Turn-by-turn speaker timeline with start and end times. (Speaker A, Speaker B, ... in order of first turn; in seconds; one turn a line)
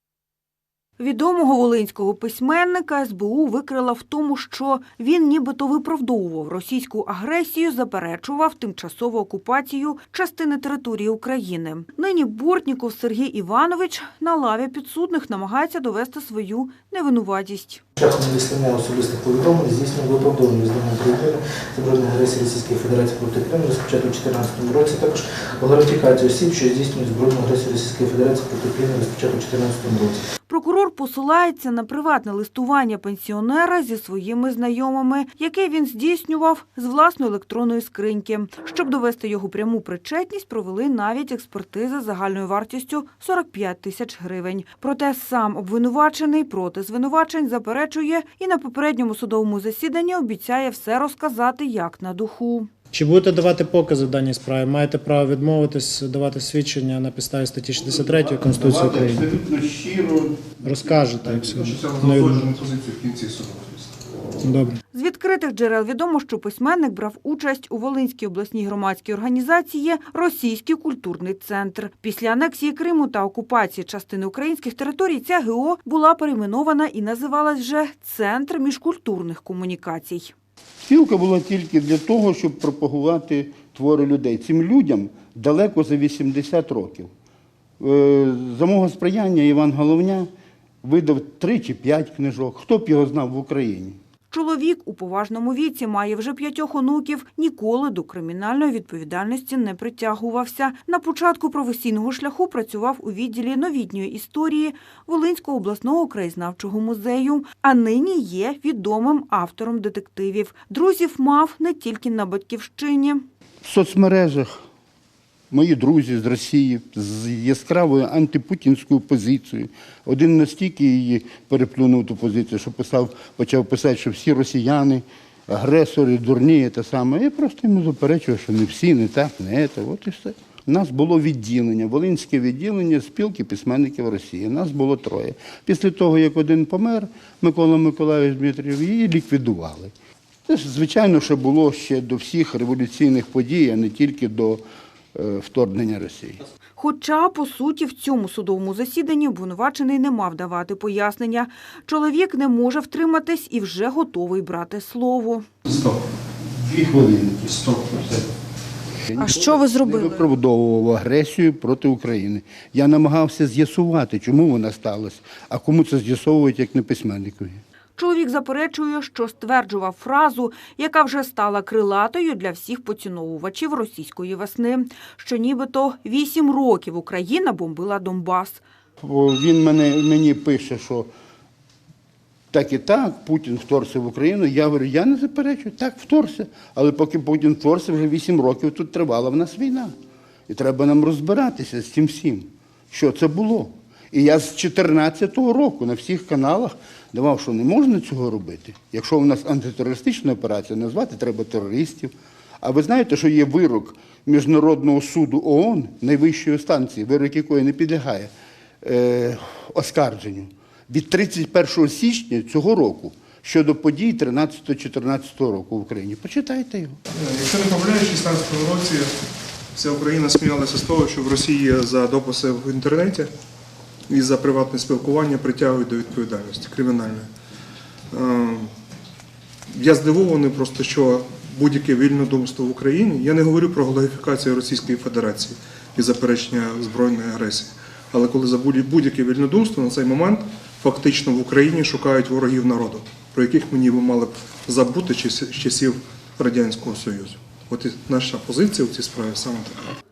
Speaker A: 1.0-17.8
Speaker B: 17.9-30.2
Speaker A: 30.5-52.7
Speaker C: 52.9-59.3
Speaker D: 57.8-61.7
Speaker C: 60.6-62.5
Speaker E: 61.8-64.0
Speaker C: 64.4-64.8
Speaker A: 64.9-80.3
Speaker D: 80.8-87.1
Speaker D: 87.8-90.3
Speaker D: 90.8-94.0
Speaker A: 94.3-113.2
Speaker D: 113.6-114.6
Speaker D: 115.5-139.9
Speaker D: 140.4-144.6
Speaker D: 145.1-146.4
Speaker A: 146.8-155.5
Speaker D: 156.5-158.2
Speaker D: 159.1-167.6
Speaker A: 159.2-160.3
Speaker A: 167.9-178.6
Speaker D: 179.0-181.1
Speaker D: 182.5-189.9
Speaker D: 190.5-208.3
Speaker D: 208.8-217.0
Speaker E: 217.1-219.2
Speaker E: 219.7-223.3
Speaker E: 224.1-227.3
Speaker E: 228.1-228.7
Speaker E: 229.7-249.9